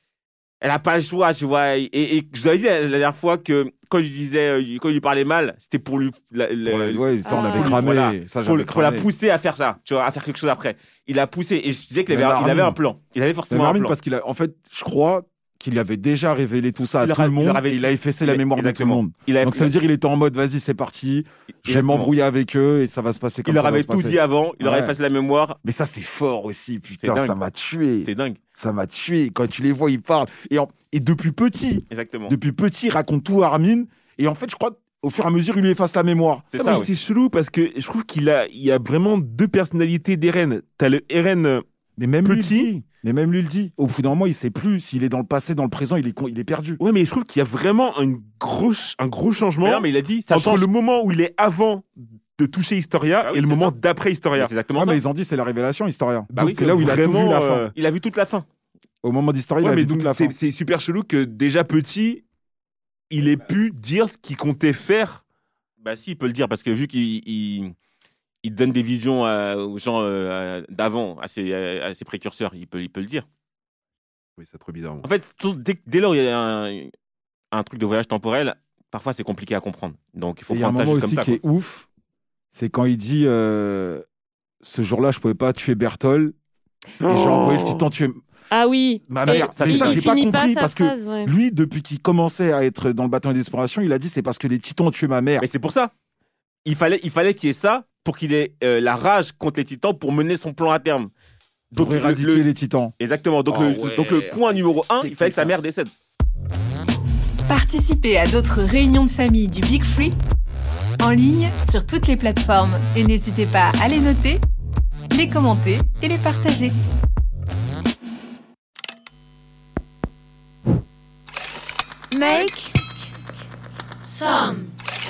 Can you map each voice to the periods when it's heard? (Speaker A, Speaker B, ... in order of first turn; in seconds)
Speaker A: 0.6-13.9, 17.0-19.7, 21.7-22.1, 23.4-25.6, 27.0-27.4, 28.0-28.4, 31.9-32.4, 36.5-36.9, 49.6-50.7, 53.2-53.8, 54.4-55.0, 56.3-56.7, 57.7-58.5, 65.8-67.7, 68.4-73.3, 75.0-76.9, 77.5-81.4, 89.3-90.0, 95.4-95.9, 96.7-101.1, 101.7-105.9
Speaker B: 6.7-9.1, 12.1-12.8, 13.5-25.0, 25.6-36.5, 42.0-46.8, 54.8-57.7, 59.0-60.4, 80.5-81.9, 82.5-84.0, 84.6-86.3, 87.0-88.2, 89.1-95.5, 101.7-102.9, 103.5-105.5
Speaker C: 7.2-7.8, 88.5-91.3, 122.1-122.8, 124.0-124.7
Speaker D: 36.5-41.6, 42.2-42.7, 46.8-54.5, 56.3-57.7, 59.6-62.2, 63.1-65.2, 74.4-75.1
Speaker E: 107.5-110.1, 111.0-114.4, 115.1-116.8